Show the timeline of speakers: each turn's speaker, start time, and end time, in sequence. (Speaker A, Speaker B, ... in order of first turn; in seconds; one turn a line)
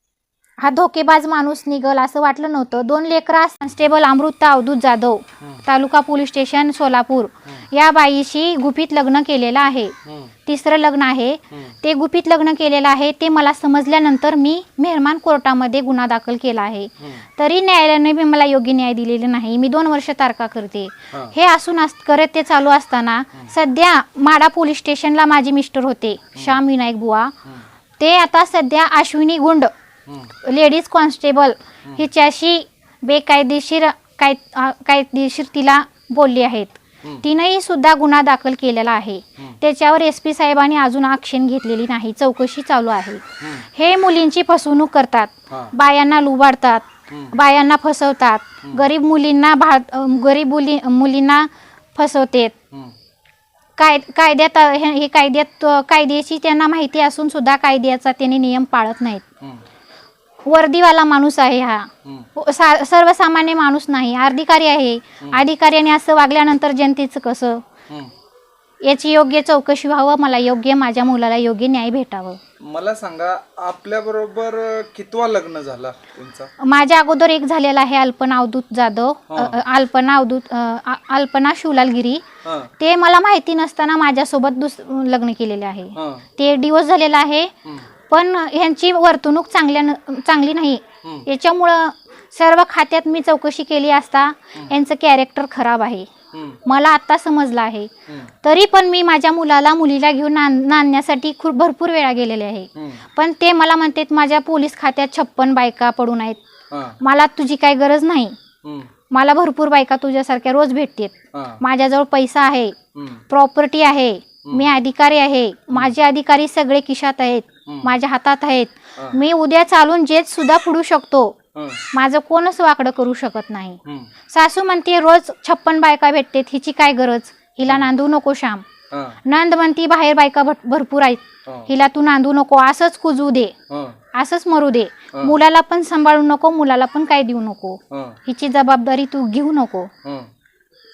Speaker A: 0.6-9.9
Speaker B: 10.1-10.3
Speaker A: 10.5-27.3
Speaker A: 28.0-29.7
Speaker A: 30.4-52.5
Speaker B: 47.1-47.3
Speaker A: 53.8-59.2
Speaker A: 60.4-67.6
Speaker A: 68.8-72.4
Speaker B: 72.6-76.5
Speaker A: 76.6-82.2
Speaker B: 79.3-79.6
Speaker B: 82.4-82.7
Speaker A: 82.8-87.5
Speaker B: 86.0-86.3
Speaker A: 88.1-96.1
Speaker B: 96.3-96.6
Speaker A: 96.7-97.9
Speaker A: 98.4-106.4
Speaker B: 102.8-103.0
Speaker B: 106.7-107.0
Speaker A: 107.0-108.4
Speaker B: 108.6-108.9
Speaker A: 109.1-112.8
Speaker B: 111.3-111.6
Speaker B: 113.0-113.2
Speaker A: 113.3-121.4
Speaker B: 117.7-117.9
Speaker B: 121.5-121.9
Speaker A: 121.9-123.8
Speaker A: 124.3-128.7
Speaker B: 128.9-129.2
Speaker A: 129.3-133.5
Speaker B: 133.7-134.0
Speaker A: 134.1-139.9
Speaker B: 137.9-138.2
Speaker B: 140.0-140.3